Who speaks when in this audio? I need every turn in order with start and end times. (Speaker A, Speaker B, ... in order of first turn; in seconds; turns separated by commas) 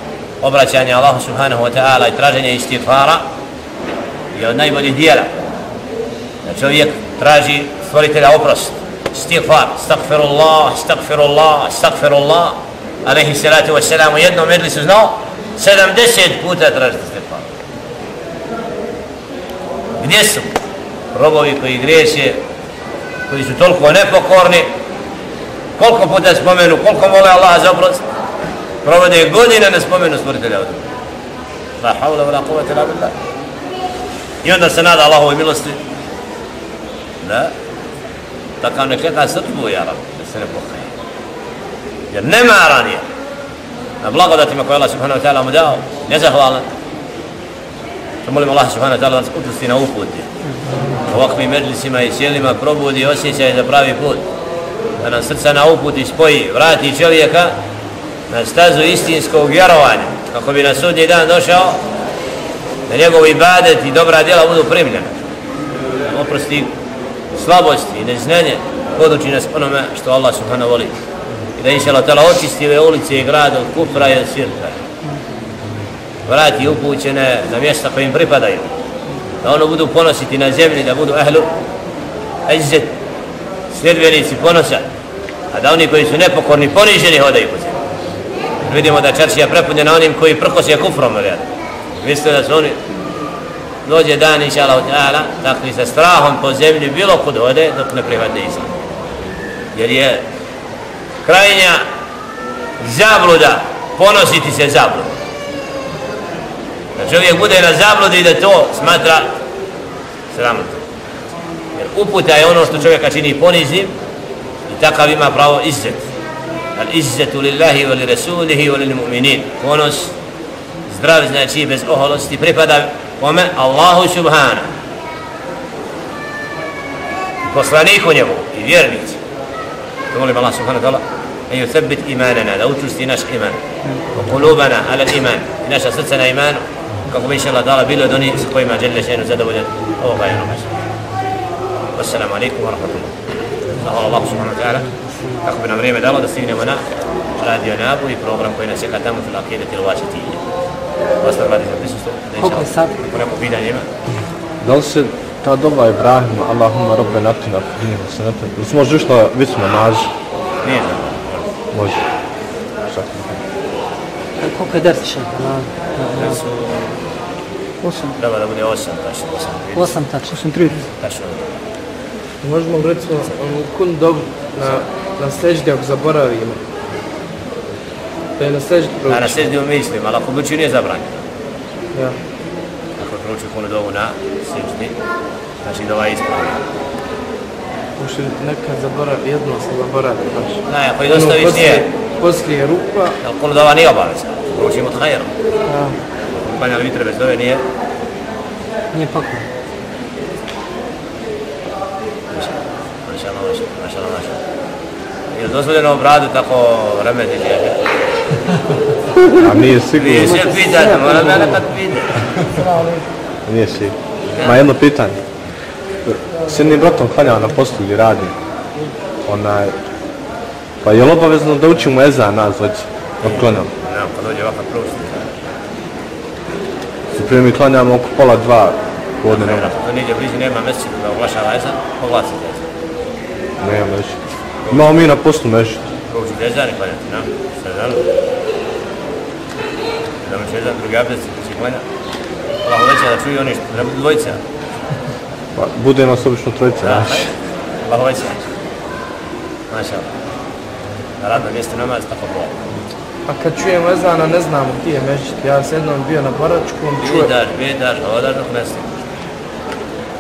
Speaker A: 0.4-3.2, Speaker A: 4.3-5.3, Speaker A: 6.5-17.5, Speaker A: 20.0-20.5, Speaker A: 21.1-22.4, Speaker A: 23.3-24.7, Speaker A: 25.8-28.0, Speaker A: 28.8-30.8, Speaker A: 31.8-33.1, Speaker A: 34.4-35.8, Speaker A: 37.2-37.5, Speaker A: 38.6-40.9, Speaker A: 42.1-43.0, Speaker A: 44.0-46.7, Speaker A: 48.2-50.3, Speaker A: 51.1-54.3, Speaker A: 55.0-57.5, Speaker A: 58.3-61.8, Speaker A: 62.9-65.3, Speaker A: 66.0-66.7, Speaker A: 67.3-71.0, Speaker A: 71.6-74.8, Speaker A: 76.3-78.8, Speaker A: 79.4-81.5, Speaker A: 82.5-82.9, Speaker A: 83.7-84.8, Speaker A: 85.5-87.8, Speaker A: 88.6-91.5, Speaker A: 92.0-92.8, Speaker A: 93.8-98.7, Speaker A: 99.8-100.2, Speaker A: 101.2-101.8, Speaker A: 102.8-105.1, Speaker A: 107.0-109.3, Speaker A: 110.3-110.8, Speaker A: 111.8-113.9, Speaker A: 114.7-116.1, Speaker A: 116.8-120.1, Speaker A: 120.9-124.7, Speaker A: 127.5-129.2, Speaker A: 130.1-133.6, Speaker A: 134.2-140.7, Speaker A: 142.0-143.1, Speaker A: 143.8-144.8, Speaker A: 145.4-146.8, Speaker A: 147.4-150.4, Speaker A: 151.2-153.9, Speaker B: 152.4-153.1, Speaker C: 154.6-160.1, Speaker A: 160.6-161.5, Speaker C: 161.7-162.0, Speaker C: 162.9-163.4, Speaker B: 164.4-166.4, Speaker A: 166.1-167.0, Speaker C: 167.8-168.2, Speaker A: 168.2-170.0, Speaker B: 169.8-170.8, Speaker C: 170.3-170.8, Speaker A: 171.0-171.6, Speaker D: 172.4-176.6, Speaker D: 178.4-179.6, Speaker A: 179.1-181.2, Speaker A: 183.0-185.0, Speaker A: 185.6-186.6, Speaker D: 188.0-193.2, Speaker A: 190.7-191.8, Speaker A: 193.2-195.3, Speaker D: 195.7-196.0, Speaker A: 196.3-197.6, Speaker B: 198.9-199.5, Speaker A: 202.3-204.4, Speaker A: 205.3-207.8, Speaker C: 209.4-210.4, Speaker A: 209.9-212.3, Speaker B: 210.2-211.5, Speaker B: 212.6-213.1, Speaker C: 213.5-215.2, Speaker A: 214.3-214.6, Speaker C: 216.1-218.3, Speaker C: 219.3-219.8, Speaker C: 220.8-223.7, Speaker A: 223.2-225.5, Speaker C: 227.1-229.7, Speaker A: 229.3-232.7, Speaker C: 233.6-234.2, Speaker A: 234.7-235.0, Speaker C: 234.7-235.8, Speaker A: 236.1-238.0, Speaker A: 240.2-241.8, Speaker A: 242.6-244.4, Speaker C: 245.6-247.3, Speaker A: 246.8-247.3, Speaker A: 247.8-248.5, Speaker A: 249.7-250.1, Speaker A: 251.2-252.7, Speaker D: 253.3-257.3, Speaker A: 257.0-259.0